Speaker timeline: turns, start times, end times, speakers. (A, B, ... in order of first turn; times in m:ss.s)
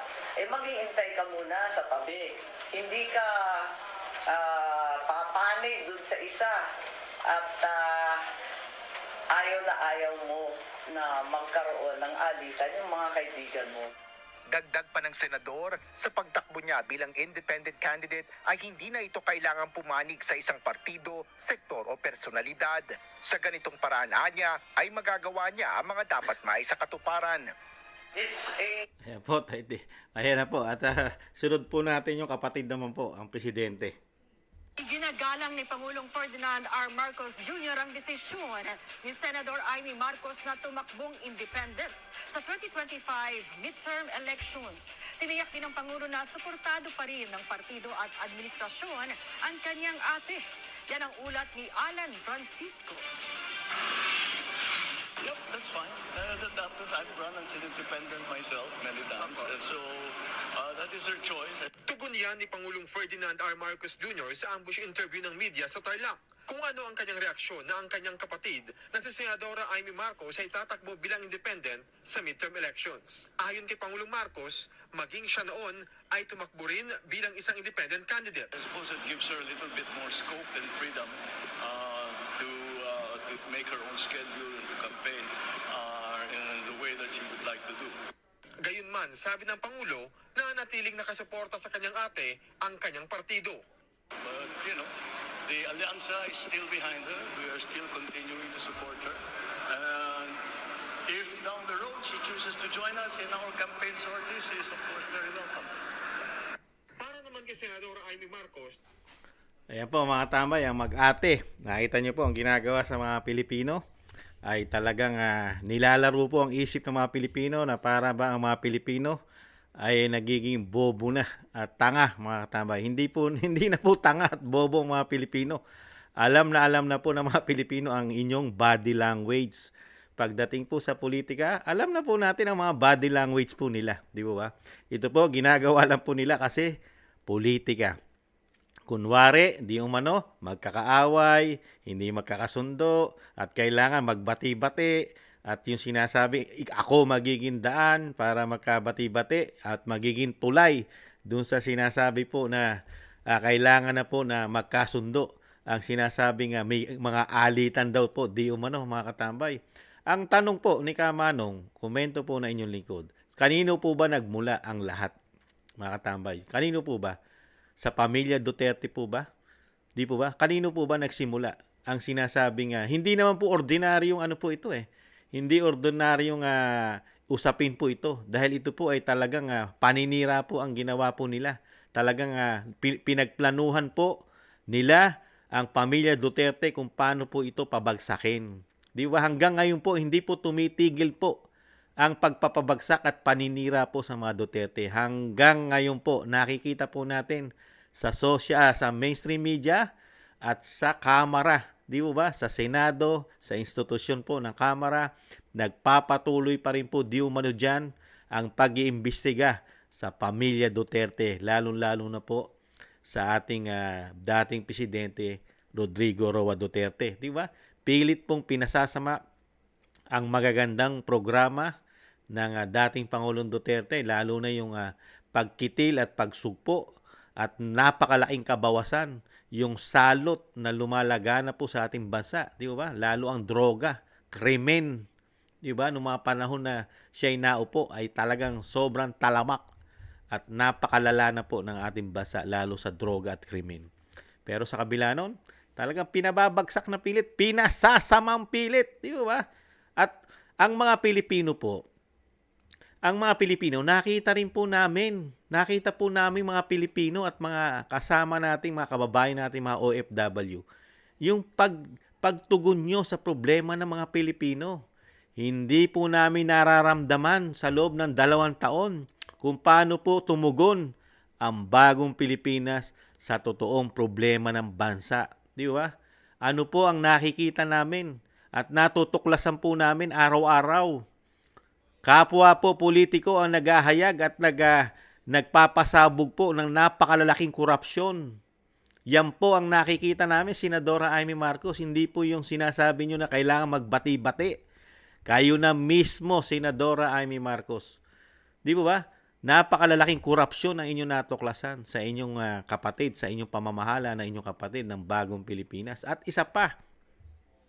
0:00.4-0:03.7 A
0:04.3-0:06.6 A
0:07.3-0:08.2 A
0:09.3-0:13.9 A
0:14.5-0:27.4 B
0:28.1-0:28.8 A
0:29.0-0:34.0 C
0:34.8-0:53.0 D
0:55.2-1:01.7 E
1:01.9-1:18.5 F
1:18.5-1:28.0 E
1:28.6-1:33.6 F
1:34.2-1:34.9 E
1:35.4-1:40.4 E
1:41.0-1:45.8 E
1:47.0-1:48.8 F
1:49.7-1:53.8 C
1:54.5-1:59.2 C
1:59.8-2:05.6 C
2:06.2-2:16.7 C
2:17.3-2:18.0 C
2:18.9-2:24.9 C
2:25.5-2:32.7 C
2:33.3-2:45.1 C
2:45.8-2:47.2 C
2:47.8-2:49.3 C
2:50.0-3:11.4 C
3:12.0-3:19.8 C
3:20.4-3:32.5 C
3:33.0-3:39.2 C
3:40.1-3:41.7 C
3:42.3-3:46.8 C
3:47.4-3:55.0 C
3:55.6-3:59.6 C
4:00.3-4:03.9 C
4:04.4-4:09.4 C
4:10.0-4:11.8 C
4:13.0-4:20.6 C
4:21.2-4:24.8 C
4:25.4-4:30.9 C
4:31.4-4:35.9 C
4:36.4-4:40.9 C
4:42.1-4:44.8 C
4:45.3-4:48.2 C
4:49.1-4:54.6 C
4:55.3-4:58.0 C
4:58.6-5:06.7 C